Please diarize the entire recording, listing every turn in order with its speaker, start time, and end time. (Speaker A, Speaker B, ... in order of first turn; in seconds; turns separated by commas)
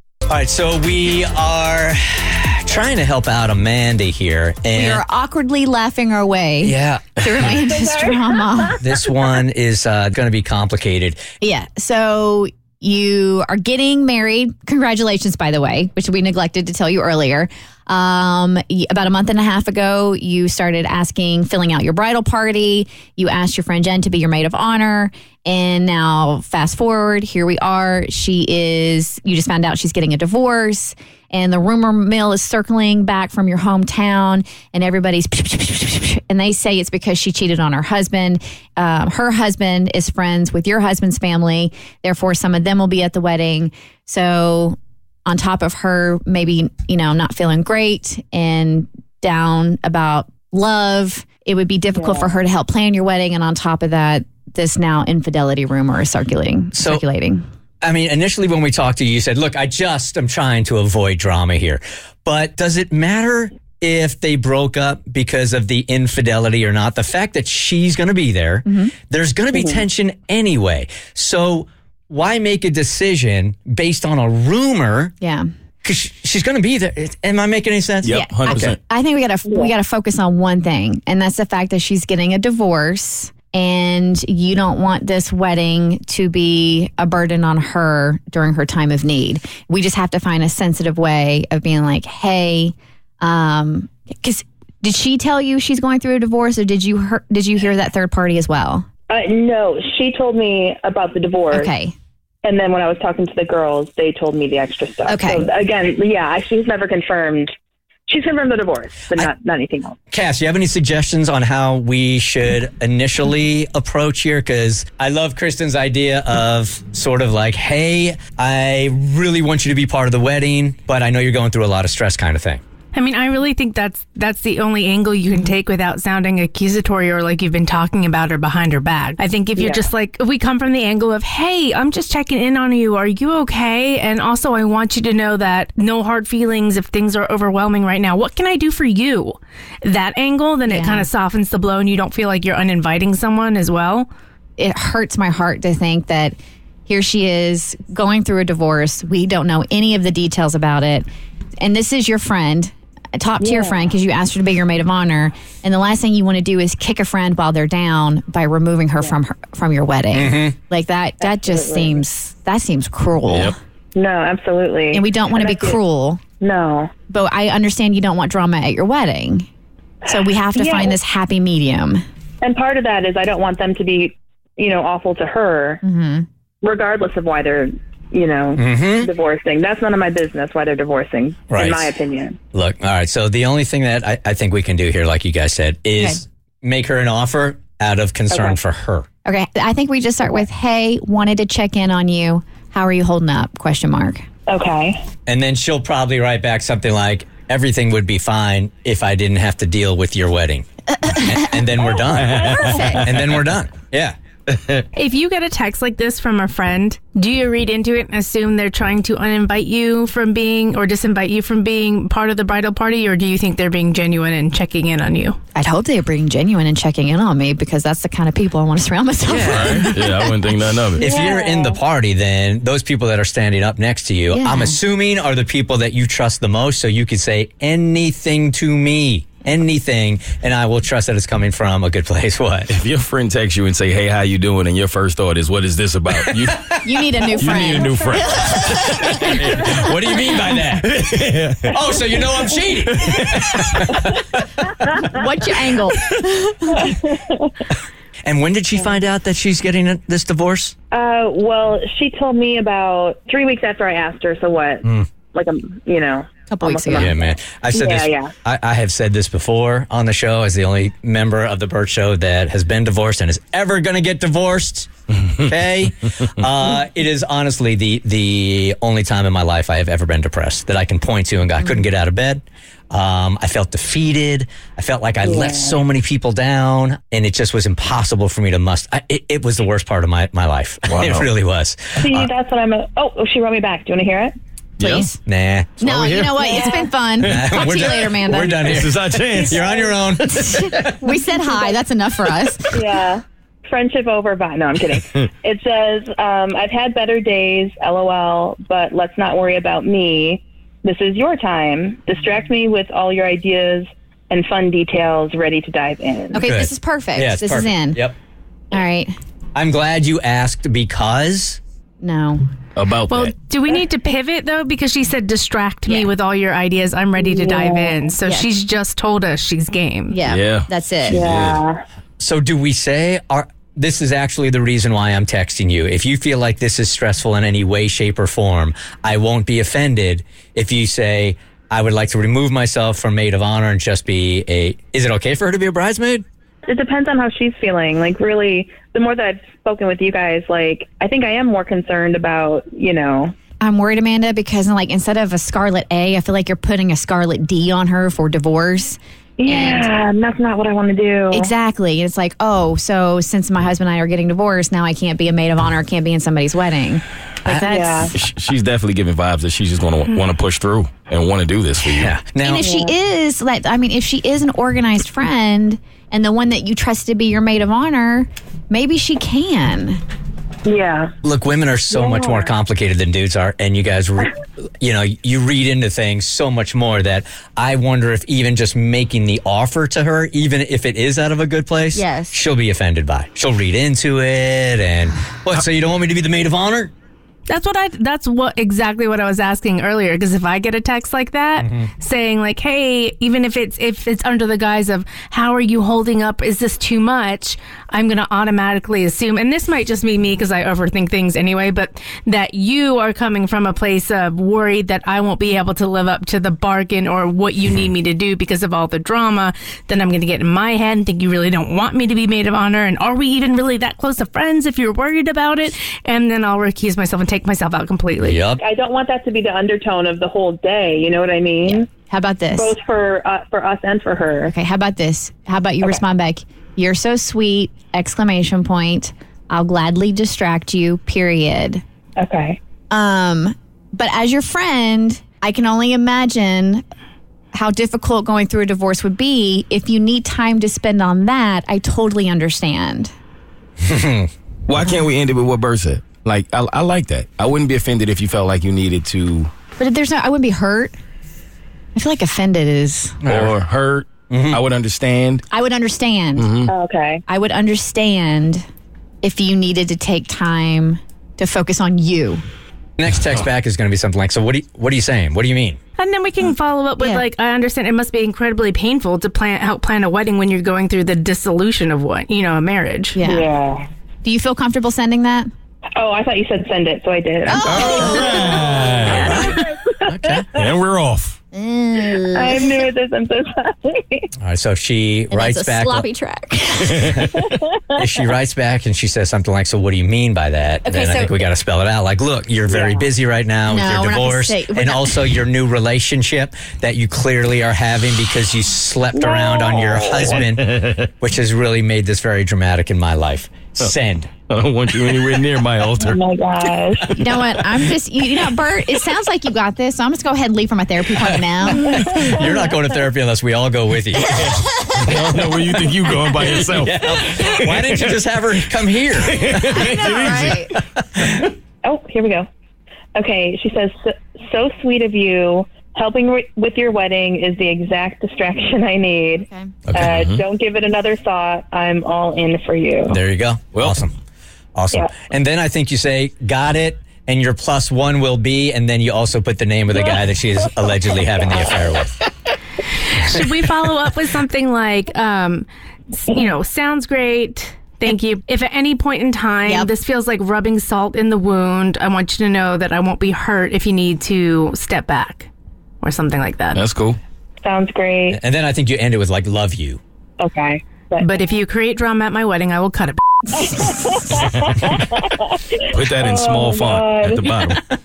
Speaker A: 0.3-5.0, Speaker B: 4.7-8.8, Speaker A: 6.6-7.5, Speaker C: 7.6-8.8, Speaker A: 8.8-11.2, Speaker B: 11.4-57.4, Speaker C: 52.0-52.3, Speaker A: 56.8-57.0, Speaker A: 57.8-75.1, Speaker B: 68.7-68.9, Speaker C: 69.5-69.8, Speaker A: 75.8-78.8, Speaker D: 78.0-78.8, Speaker B: 78.0-98.9, Speaker C: 99.1-101.7, Speaker B: 101.5-101.9, Speaker C: 102.4-107.5, Speaker B: 105.1-105.5, Speaker C: 108.1-110.0, Speaker A: 110.1-122.6, Speaker E: 122.9-144.1, Speaker C: 129.6-129.9, Speaker B: 140.7-141.1, Speaker B: 144.6-151.1, Speaker B: 151.6-163.6, Speaker C: 153.4-153.8, Speaker A: 160.1-160.6, Speaker C: 161.2-162.0, Speaker D: 163.3-163.5, Speaker C: 163.9-165.8, Speaker B: 164.9-166.2, Speaker C: 166.4-166.9, Speaker B: 167.1-169.5, Speaker B: 170.1-172.0, Speaker C: 170.1-171.0, Speaker C: 172.4-175.8, Speaker B: 175.8-176.3, Speaker C: 176.6-182.4, Speaker A: 178.6-179.1, Speaker A: 181.5-181.9, Speaker A: 182.5-189.1, Speaker C: 188.3-188.6, Speaker B: 189.2-194.2, Speaker C: 194.5-195.0, Speaker A: 195.3-204.1, Speaker B: 201.3-201.7, Speaker B: 202.3-203.1, Speaker D: 202.4-202.8, Speaker D: 204.5-204.8, Speaker E: 204.9-215.4, Speaker B: 215.6-220.3, Speaker A: 219.2-219.9, Speaker D: 219.5-221.1, Speaker C: 221.0-221.8, Speaker A: 221.0-232.8, Speaker B: 224.3-224.8, Speaker D: 232.7-236.8, Speaker B: 236.8-240.6, Speaker D: 237.3-239.7, Speaker A: 238.9-241.0, Speaker D: 240.8-241.8, Speaker A: 241.7-244.2, Speaker D: 243.0-243.7, Speaker C: 244.7-245.1, Speaker B: 245.0-246.9, Speaker C: 246.8-247.5, Speaker A: 248.2-250.7, Speaker C: 250.9-258.3, Speaker B: 256.5-257.2, Speaker A: 256.9-282.3, Speaker C: 275.2-275.8, Speaker D: 280.9-281.3, Speaker C: 282.0-284.3, Speaker D: 284.8-285.1, Speaker B: 284.8-285.2, Speaker A: 285.2-286.1, Speaker B: 285.8-288.8, Speaker D: 285.8-286.4, Speaker C: 286.4-286.9, Speaker A: 287.2-291.0, Speaker D: 287.2-287.5, Speaker D: 288.6-289.8, Speaker C: 289.4-289.9, Speaker B: 290.3-292.8, Speaker C: 291.0-291.8, Speaker C: 292.7-306.4, Speaker B: 306.3-308.1, Speaker A: 306.4-308.1, Speaker B: 308.7-309.1, Speaker A: 309.6-311.6, Speaker B: 312.0-312.4, Speaker D: 312.8-313.3, Speaker E: 313.1-320.2, Speaker C: 317.2-318.0, Speaker B: 318.2-318.5, Speaker B: 320.1-321.3, Speaker D: 320.3-321.6, Speaker C: 321.1-321.8, Speaker A: 322.2-336.2, Speaker C: 336.7-343.4, Speaker B: 343.6-349.9, Speaker C: 349.4-351.5, Speaker B: 351.3-358.1, Speaker C: 357.6-358.1, Speaker D: 358.1-362.2, Speaker A: 361.9-362.7, Speaker B: 362.4-370.0, Speaker C: 362.6-362.9, Speaker C: 370.6-371.1, Speaker A: 371.2-386.9, Speaker C: 371.9-372.5, Speaker B: 381.9-382.4, Speaker E: 387.5-418.4, Speaker A: 391.6-391.9, Speaker A: 418.2-418.6, Speaker C: 418.6-421.9, Speaker B: 421.6-422.8, Speaker C: 422.6-424.5, Speaker B: 424.5-431.8, Speaker C: 432.2-432.6, Speaker B: 432.9-436.8, Speaker B: 437.5-443.1, Speaker A: 443.8-444.3, Speaker D: 444.7-449.5, Speaker B: 449.8-450.9, Speaker B: 451.9-453.2, Speaker A: 453.2-453.6, Speaker D: 453.3-455.4, Speaker A: 454.3-454.6, Speaker B: 455.5-456.5, Speaker D: 456.4-456.7, Speaker C: 456.7-457.2, Speaker B: 457.3-458.6, Speaker B: 459.2-462.4, Speaker A: 463.0-465.8, Speaker E: 466.0-473.2, Speaker B: 467.0-467.3, Speaker B: 473.1-473.5, Speaker C: 473.2-473.8, Speaker B: 474.2-475.5, Speaker C: 476.0-480.7, Speaker B: 477.5-478.9, Speaker D: 477.6-479.5, Speaker A: 479.1-480.5, Speaker D: 480.6-481.4, Speaker B: 481.5-482.9, Speaker C: 482.4-484.3, Speaker A: 484.4-486.1, Speaker B: 485.3-487.2, Speaker A: 487.1-504.3, Speaker C: 487.3-487.8, Speaker B: 490.8-491.4, Speaker C: 492.7-493.1, Speaker B: 493.7-495.4, Speaker C: 499.1-500.4, Speaker D: 500.6-501.0, Speaker D: 504.5-506.2, Speaker C: 506.0-507.1, Speaker B: 507.1-512.0, Speaker C: 511.7-512.4, Speaker A: 511.9-514.9, Speaker D: 514.4-518.1, Speaker A: 516.4-521.5, Speaker D: 519.2-520.7, Speaker B: 519.6-520.7, Speaker C: 521.8-522.5, Speaker C: 523.1-533.2, Speaker B: 529.5-529.8, Speaker A: 529.9-530.2, Speaker D: 530.0-530.4, Speaker A: 533.1-534.2, Speaker D: 533.7-534.0, Speaker A: 534.8-542.2, Speaker C: 539.9-540.2, Speaker E: 543.0-555.5, Speaker E: 556.0-556.8, Speaker D: 556.8-557.2, Speaker C: 557.6-558.4, Speaker A: 558.3-560.0, Speaker C: 560.4-561.3, Speaker E: 561.2-563.7, Speaker C: 563.6-567.7, Speaker D: 565.9-567.9